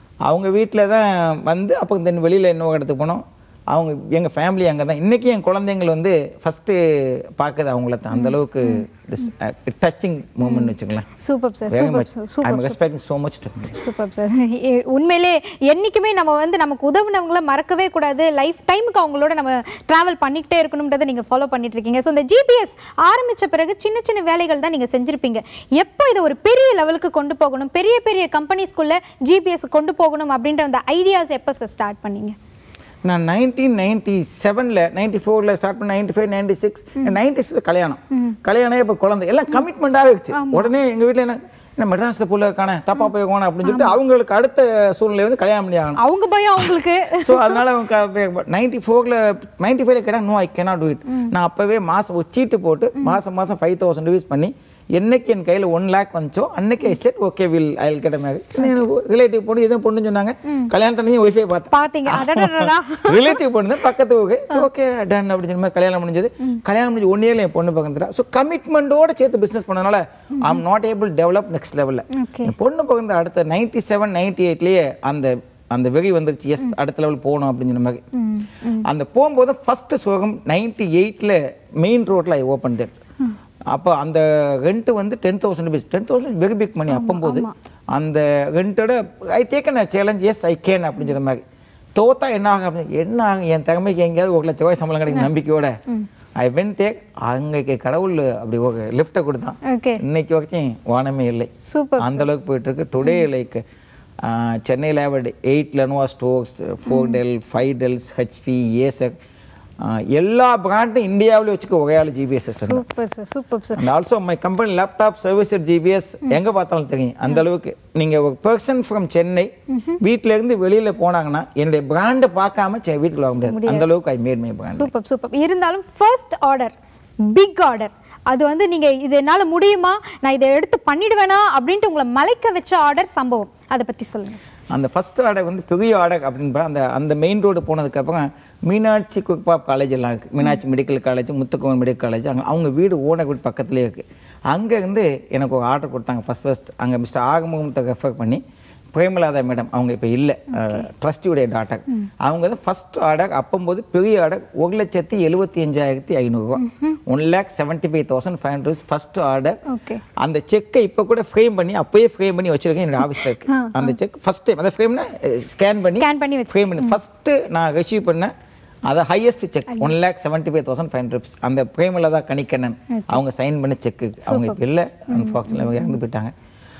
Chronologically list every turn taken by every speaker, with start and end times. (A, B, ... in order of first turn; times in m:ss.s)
0:00.2-0:11.1 A
0:08.1-0:08.8 B
0:10.4-0:12.8 B
0:11.7-0:13.8 A
0:13.8-0:32.4 B
0:33.0-0:46.0 A
0:38.1-0:38.4 B
0:40.3-0:40.7 B
0:43.6-0:44.0 B
0:46.0-0:47.6 B
0:46.6-1:18.0 A
0:58.6-0:58.8 B
1:00.4-1:00.7 B
1:01.7-1:03.4 B
1:12.1-1:12.5 B
1:18.2-1:18.8 B
1:18.8-1:22.9 A
1:23.7-1:31.4 A
1:26.9-1:27.5 B
1:32.0-1:35.8 A
1:36.4-1:43.6 A
1:39.6-1:40.0 B
1:41.6-1:42.3 B
1:44.2-1:49.2 A
1:46.9-1:47.2 B
1:49.8-1:52.8 A
1:52.5-1:53.8 B
1:53.7-2:04.9 A
1:59.7-2:00.0 B
2:03.5-2:03.8 B
2:04.7-2:14.4 B
2:14.7-2:28.4 A
2:28.9-2:39.6 A
2:30.5-2:30.9 B
2:36.6-2:37.0 B
2:39.7-2:40.0 B
2:40.2-2:48.3 A
2:43.2-2:44.0 B
2:46.0-2:47.0 B
2:48.9-2:56.3 A
2:49.7-2:49.9 B
2:52.9-2:53.2 B
2:54.2-2:54.6 B
2:55.1-2:55.8 B